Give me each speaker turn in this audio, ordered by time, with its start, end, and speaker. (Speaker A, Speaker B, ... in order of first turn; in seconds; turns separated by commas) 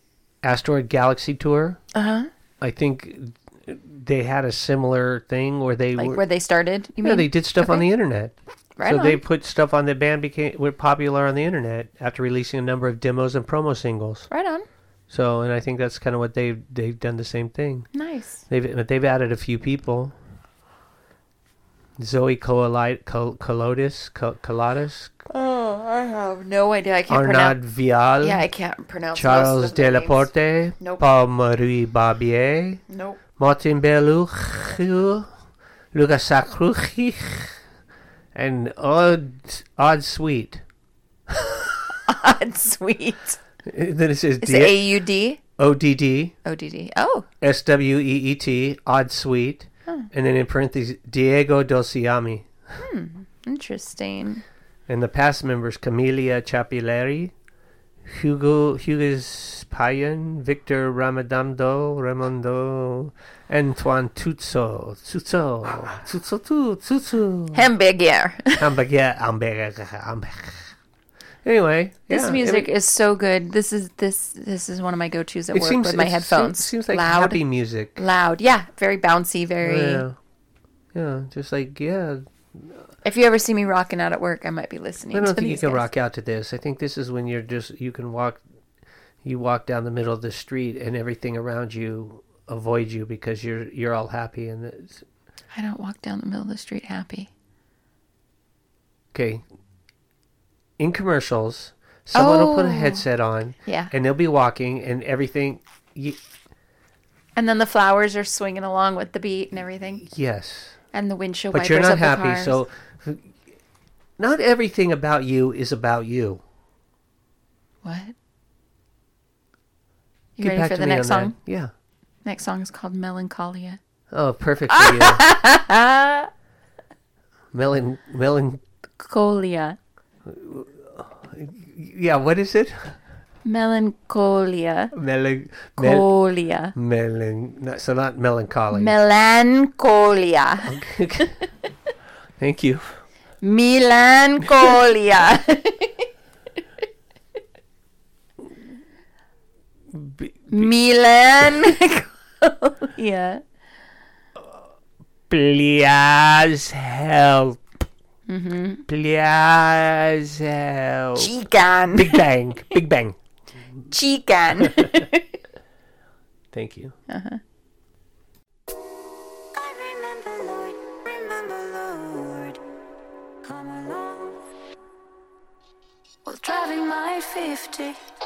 Speaker A: 0.4-1.8, Speaker B: 1.9-2.3, Speaker A: 2.6-6.2, Speaker B: 6.0-7.9, Speaker A: 7.0-14.3, Speaker B: 8.8-9.2, Speaker B: 14.3-14.7, Speaker A: 15.1-17.9, Speaker B: 17.9-18.4, Speaker A: 18.5-20.1, Speaker A: 22.0-25.1, Speaker B: 25.3-27.6, Speaker A: 27.1-28.4, Speaker B: 28.2-31.0, Speaker A: 29.1-32.8, Speaker B: 32.9-33.2, Speaker A: 33.4-35.3, Speaker A: 35.9-37.5, Speaker A: 38.3-40.6, Speaker A: 41.3-41.7, Speaker B: 42.0-43.4, Speaker A: 43.6-44.8, Speaker B: 44.4-45.4, Speaker A: 45.6-46.3, Speaker B: 46.4-47.3, Speaker A: 47.4-52.5, Speaker B: 52.8-54.4, Speaker A: 54.9-57.3, Speaker A: 58.0-67.7, Speaker B: 67.5-68.7, Speaker A: 68.6-70.7, Speaker A: 71.4-72.7, Speaker B: 72.1-77.4, Speaker A: 75.5-78.0, Speaker B: 77.9-80.0, Speaker A: 79.6-80.2, Speaker A: 80.9-82.8, Speaker B: 83.0-85.9, Speaker A: 85.1-88.4, Speaker A: 89.2-95.0, Speaker B: 95.5-97.3, Speaker A: 99.1-99.4, Speaker A: 100.8-106.2, Speaker B: 102.1-103.0, Speaker B: 103.6-103.9, Speaker B: 107.3-110.0, Speaker A: 110.0-110.8, Speaker B: 110.9-112.6, Speaker A: 111.5-113.3, Speaker A: 114.2-116.4, Speaker B: 117.8-118.1, Speaker B: 120.4-121.3, Speaker A: 120.4-121.7, Speaker B: 122.2-123.8, Speaker A: 124.1-125.3, Speaker B: 124.7-126.3, Speaker A: 127.5-128.6, Speaker B: 129.0-129.8, Speaker A: 130.2-133.0, Speaker B: 133.4-134.9, Speaker A: 134.9-136.1, Speaker B: 135.8-136.7, Speaker A: 136.7-138.9, Speaker B: 138.7-141.2, Speaker A: 140.6-141.4, Speaker A: 142.4-143.0, Speaker B: 143.4-146.1, Speaker A: 149.9-150.7, Speaker B: 150.5-153.4, Speaker A: 155.3-157.6, Speaker B: 158.3-158.8, Speaker A: 158.9-161.3, Speaker B: 161.2-162.3, Speaker A: 161.9-163.2, Speaker B: 163.9-165.2, Speaker A: 164.6-165.0, Speaker A: 166.5-166.9, Speaker B: 167.1-167.4, Speaker C: 169.5-172.6, Speaker C: 173.4-174.4, Speaker C: 176.2-178.0